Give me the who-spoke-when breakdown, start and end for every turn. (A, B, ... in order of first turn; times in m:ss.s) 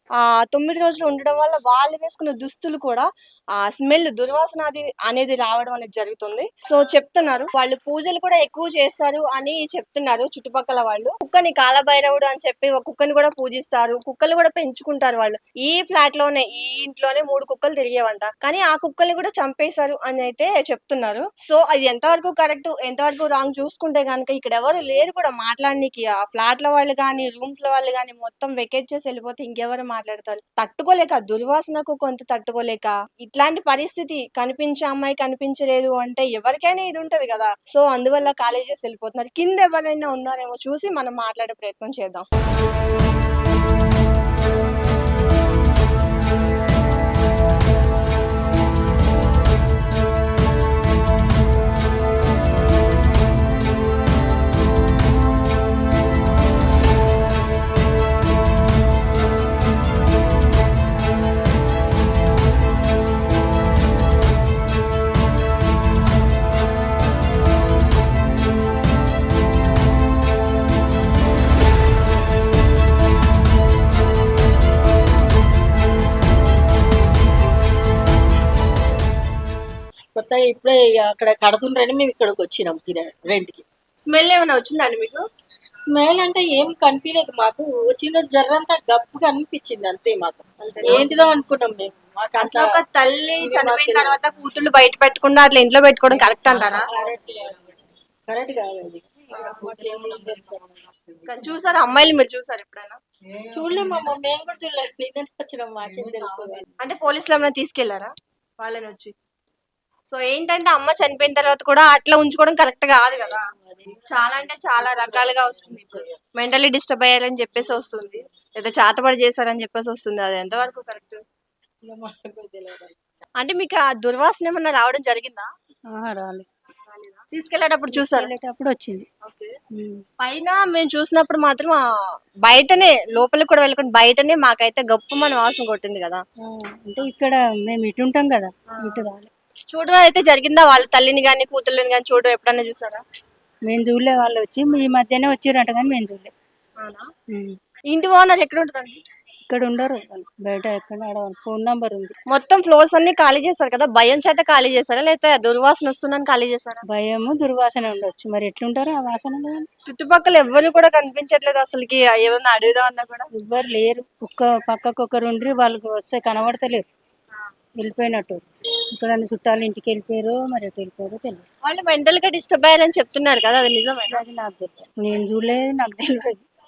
0:00.5-0:03.1 A
0:03.6-0:42.2 A
1:20.1-1:23.6 B
1:24.0-1:25.2 A
1:25.8-1:32.7 B
1:30.6-1:31.1 A
1:32.4-1:36.9 A
1:33.4-1:34.2 B
1:36.6-1:41.2 B
1:41.3-1:43.0 A
1:43.5-1:46.7 B
1:46.8-1:48.1 A
1:48.6-1:49.1 A
1:50.1-1:53.4 A
1:53.2-1:56.2 B
1:54.1-2:01.2 A
2:01.8-2:03.0 B
2:03.4-2:05.5 A
2:05.9-2:06.5 C
2:06.9-2:08.3 A
2:07.9-2:09.0 C
2:09.8-2:10.0 C
2:10.2-2:11.8 A
2:12.4-2:16.2 A
2:16.4-2:19.3 C
2:18.7-2:19.1 A
2:19.7-2:23.0 A
2:23.7-2:26.3 C
2:26.8-2:27.1 A
2:27.9-2:29.0 A
2:29.5-2:32.2 C
2:32.3-2:36.8 A
2:36.9-2:39.7 C
2:39.9-2:43.3 A
2:43.4-2:46.8 C
2:47.8-2:51.4 C
2:51.6-2:54.2 A
2:54.1-2:56.4 C